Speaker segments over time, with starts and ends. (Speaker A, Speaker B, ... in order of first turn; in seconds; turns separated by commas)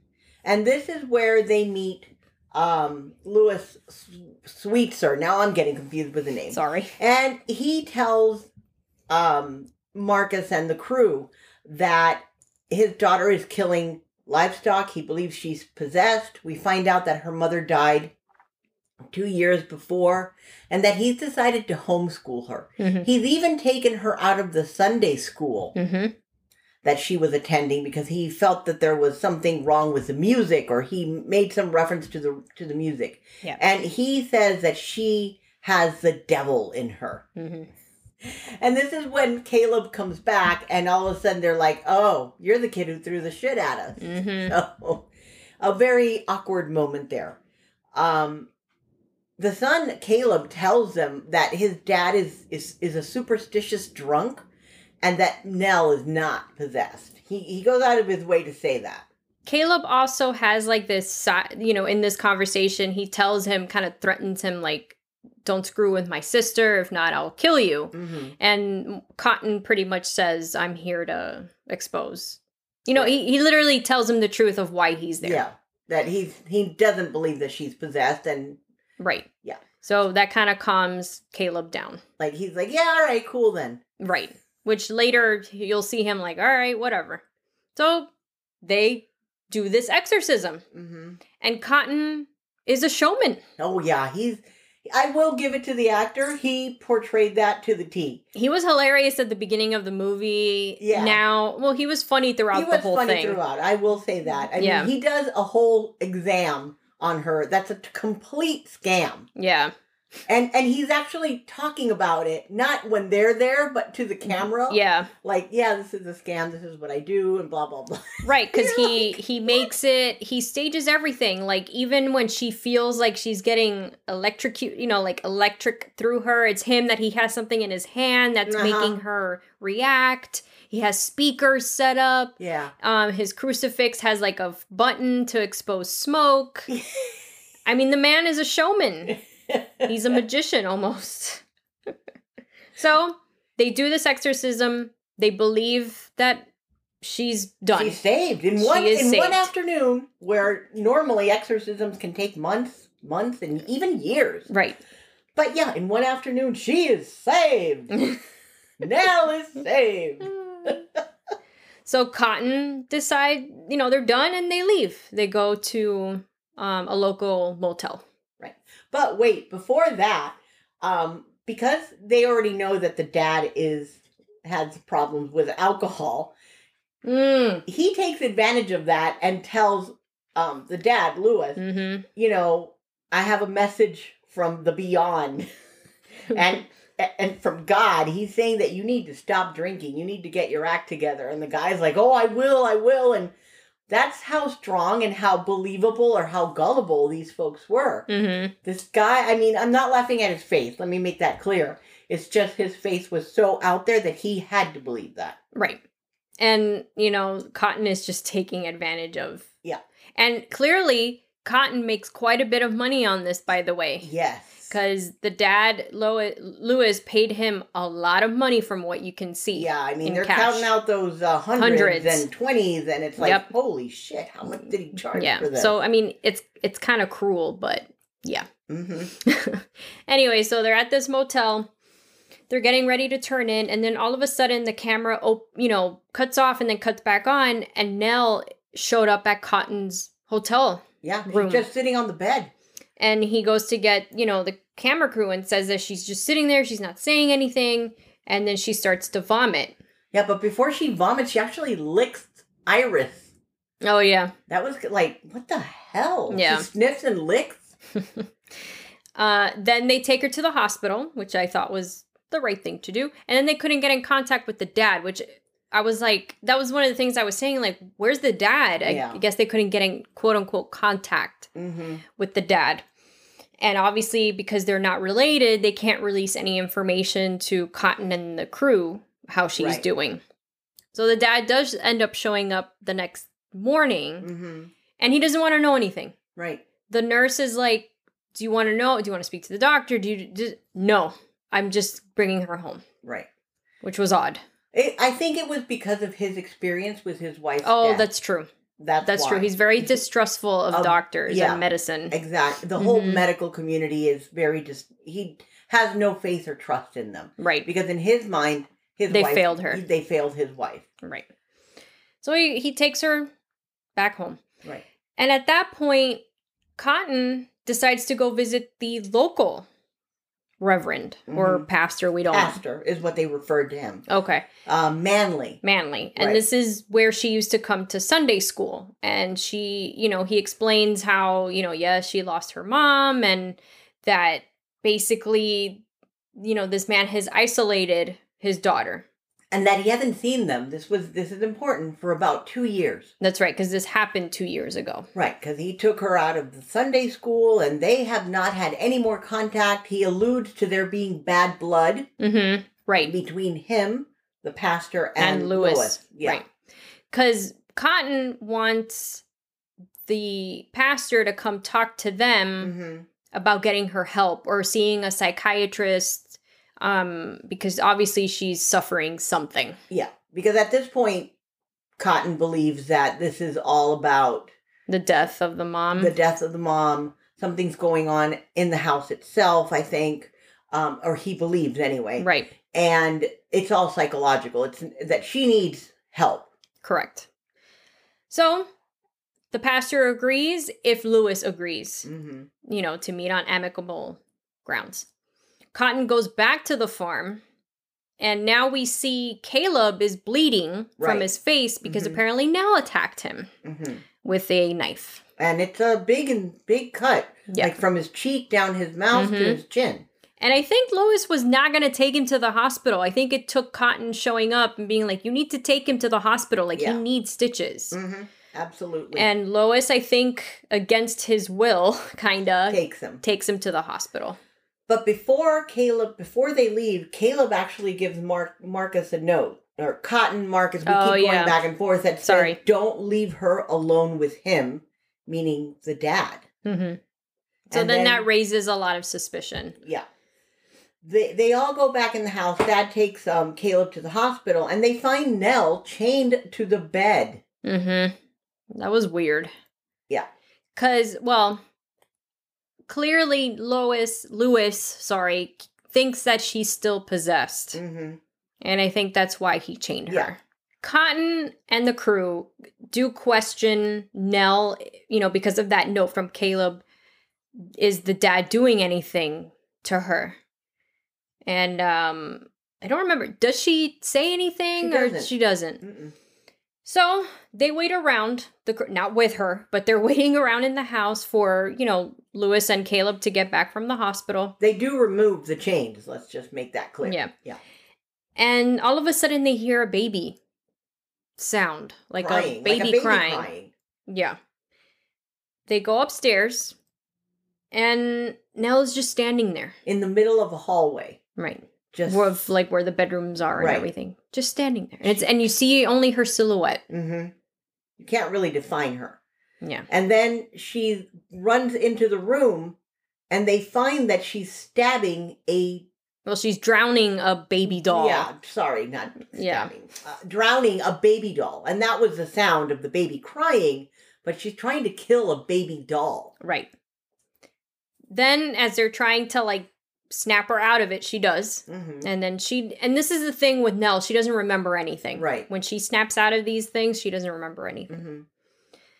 Speaker A: 0.4-8.5, Speaker B: 6.5-7.0, Speaker A: 9.1-18.1, Speaker A: 19.1-25.8, Speaker B: 22.8-23.1, Speaker B: 25.8-26.1, Speaker A: 26.8-37.3, Speaker B: 37.4-37.7, Speaker A: 38.2-45.1, Speaker B: 44.0-44.5, Speaker A: 45.6-47.4, Speaker A: 47.9-48.5, Speaker A: 49.4-54.5, Speaker A: 55.0-59.1, Speaker B: 59.5-75.4, Speaker A: 67.9-68.3, Speaker A: 75.2-78.6, Speaker B: 79.0-79.3, Speaker B: 79.8-82.0, Speaker A: 82.2-83.8, Speaker B: 84.0-87.2, Speaker B: 87.8-88.1, Speaker B: 88.6-90.6, Speaker A: 90.7-91.2, Speaker B: 91.4-93.4, Speaker A: 93.6-98.2, Speaker B: 98.3-103.4, Speaker A: 100.8-101.2, Speaker A: 102.5-109.3, Speaker B: 104.6-104.9, Speaker B: 109.4-109.7, Speaker A: 110.3-119.7, Speaker B: 114.3-115.1, Speaker B: 118.2-136.7, Speaker A: 128.5-129.0, Speaker A: 132.4-132.7, Speaker A: 136.7-137.1, Speaker B: 137.7-139.2, Speaker A: 139.5-139.9, Speaker B: 139.8-141.4, Speaker B: 142.8-146.5, Speaker B: 147.0-148.0, Speaker A: 147.7-154.5, Speaker B: 148.6-149.5, Speaker B: 154.5-154.8, Speaker A: 155.3-158.0, Speaker A: 158.8-160.8, Speaker B: 161.9-168.0, Speaker A: 168.4-176.3, Speaker B: 177.0-177.7, Speaker A: 177.7-181.6, Speaker B: 181.6-182.1, Speaker A: 182.2-185.5, Speaker A: 186.3-193.3, Speaker A: 193.9-198.1, Speaker B: 198.1-198.5, Speaker A: 198.6-205.4, Speaker B: 205.5-205.8, Speaker B: 206.4-209.5, Speaker B: 210.2-214.1, Speaker A: 214.0-214.8, Speaker B: 214.7-220.7, Speaker A: 219.5-225.8, Speaker B: 221.6-222.3, Speaker B: 223.2-223.5, Speaker B: 225.1-228.5, Speaker A: 228.7-229.1, Speaker B: 229.1-231.7, Speaker B: 232.5-241.7, Speaker A: 241.0-242.5, Speaker B: 243.0-249.8, Speaker A: 250.1-253.3, Speaker B: 253.8-254.3, Speaker A: 254.5-257.7, Speaker B: 256.3-256.7, Speaker B: 258.0-258.3, Speaker B: 259.2-271.5, Speaker A: 268.9-269.2, Speaker A: 271.6-272.0, Speaker B: 272.2-272.9, Speaker B: 273.6-280.2, Speaker A: 279.6-279.9, Speaker B: 280.9-284.3, Speaker A: 284.2-284.7, Speaker B: 285.0-286.2, Speaker A: 286.4-286.6, Speaker B: 286.9-292.9, Speaker A: 293.0-293.3, Speaker B: 293.8-294.4, Speaker A: 294.7-298.1, Speaker B: 297.6-298.5, Speaker A: 298.8-300.0, Speaker B: 299.0-302.2, Speaker A: 300.7-310.9, Speaker B: 302.8-303.3, Speaker B: 307.4-307.7, Speaker B: 309.1-309.8, Speaker B: 311.0-311.3, Speaker B: 312.2-313.3, Speaker B: 314.0-314.4, Speaker B: 315.2-316.2, Speaker B: 316.8-319.7, Speaker B: 320.6-322.6, Speaker A: 321.3-321.7, Speaker A: 322.3-324.1, Speaker B: 324.1-324.5, Speaker A: 324.7-325.6, Speaker B: 325.6-335.8, Speaker A: 326.2-326.4, Speaker B: 336.4-339.1, Speaker A: 339.5-343.1, Speaker B: 343.2-345.1, Speaker A: 345.1-352.1, Speaker B: 352.2-353.1, Speaker A: 353.0-356.4, Speaker B: 355.2-356.5, Speaker B: 357.1-359.2, Speaker B: 360.1-362.7, Speaker A: 362.6-363.1, Speaker B: 363.3-369.8, Speaker A: 369.9-371.3, Speaker A: 372.0-374.5, Speaker B: 374.9-376.1, Speaker A: 375.9-386.5, Speaker B: 382.2-382.5, Speaker B: 386.8-387.3, Speaker B: 388.3-388.7, Speaker B: 389.5-392.1, Speaker A: 392.1-392.5, Speaker B: 392.6-395.1, Speaker B: 395.7-397.4, Speaker B: 398.2-403.5, Speaker A: 401.0-401.3, Speaker A: 401.8-402.2, Speaker A: 403.6-404.0, Speaker B: 404.2-405.2, Speaker A: 405.4-410.1, Speaker B: 407.5-407.8, Speaker B: 409.1-409.6, Speaker B: 410.4-418.0, Speaker A: 417.9-419.3, Speaker B: 419.1-424.4, Speaker A: 422.7-423.2, Speaker A: 424.9-436.4, Speaker B: 430.9-431.6, Speaker B: 432.2-432.6, Speaker B: 436.6-437.0, Speaker B: 437.7-439.8, Speaker A: 437.7-438.2, Speaker A: 439.8-440.1, Speaker A: 441.0-447.4, Speaker B: 447.6-448.1, Speaker B: 448.7-449.5, Speaker B: 450.8-451.6, Speaker B: 452.9-457.8, Speaker A: 457.7-458.2, Speaker B: 458.6-466.8, Speaker B: 467.8-470.4, Speaker B: 471.5-475.8, Speaker A: 474.8-475.3, Speaker A: 475.8-476.1, Speaker B: 476.9-484.6, Speaker A: 484.6-487.6, Speaker B: 487.0-487.3, Speaker B: 488.4-490.4, Speaker B: 491.4-493.5, Speaker A: 492.2-493.7, Speaker B: 494.1-494.4, Speaker B: 495.7-496.8, Speaker B: 497.7-499.8, Speaker A: 499.9-501.2, Speaker B: 501.4-506.8, Speaker A: 501.9-502.5, Speaker A: 503.6-503.9, Speaker A: 505.0-505.3, Speaker A: 506.9-507.3, Speaker A: 508.0-509.2, Speaker B: 509.6-509.9, Speaker A: 509.9-512.8, Speaker A: 513.3-515.9, Speaker B: 516.3-518.3, Speaker A: 517.7-526.3, Speaker B: 519.3-519.7, Speaker B: 526.4-526.7, Speaker B: 528.1-538.0, Speaker A: 531.7-532.1, Speaker A: 535.2-535.5, Speaker A: 537.9-538.3